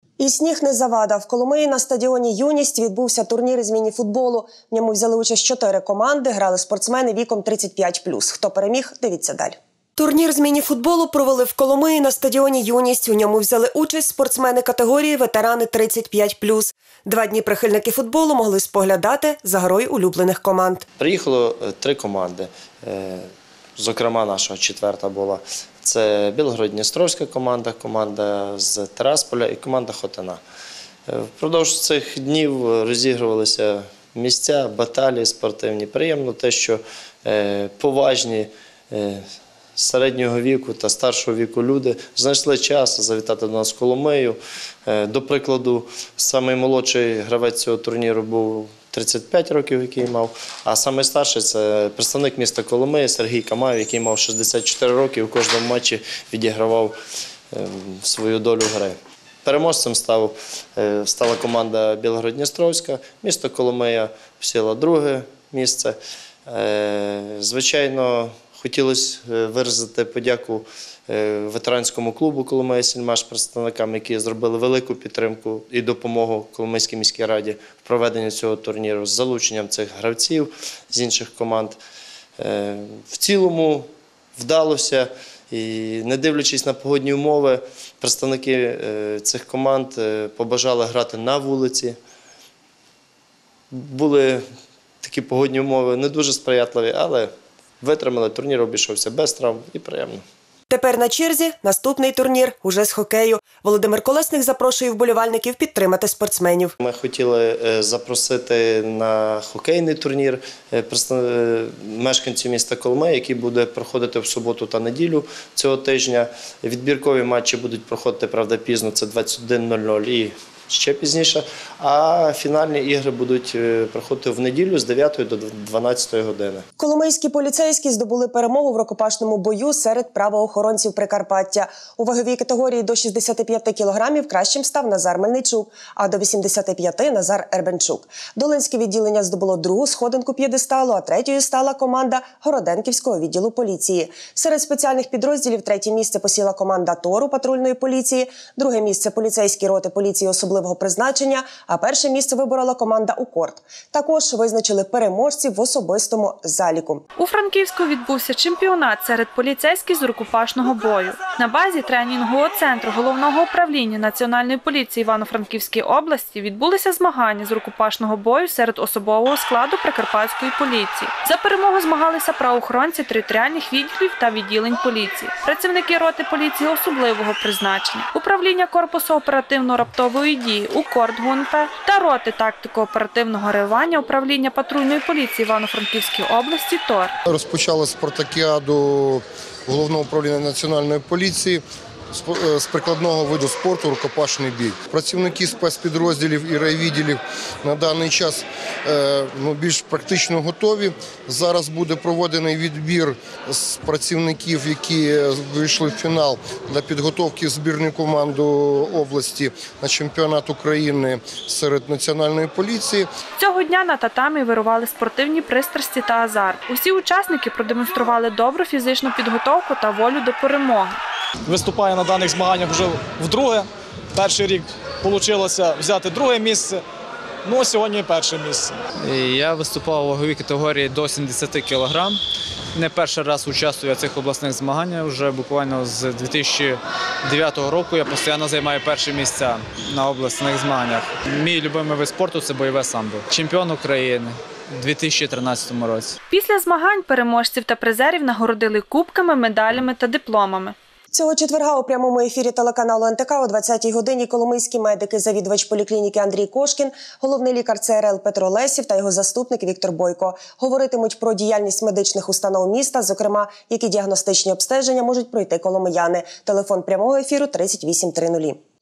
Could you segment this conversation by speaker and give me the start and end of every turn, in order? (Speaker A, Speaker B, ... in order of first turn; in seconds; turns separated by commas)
Speaker A: 0.2-20.8, Speaker B: 21.0-30.4, Speaker B: 31.1-39.3, Speaker B: 39.8-56.9, Speaker B: 57.5-81.8, Speaker B: 82.4-92.0, Speaker B: 93.7-94.4, Speaker B: 95.0-100.2, Speaker A: 100.7-106.8, Speaker B: 106.8-126.6, Speaker A: 126.8-157.0, Speaker C: 157.2-187.2, Speaker D: 187.3-213.1, Speaker C: 213.4-221.0, Speaker E: 221.5-226.8, Speaker E: 227.4-228.7, Speaker F: 229.0-232.2, Speaker F: 232.7-246.2, Speaker C: 246.3-250.7, Speaker A: 251.1-268.6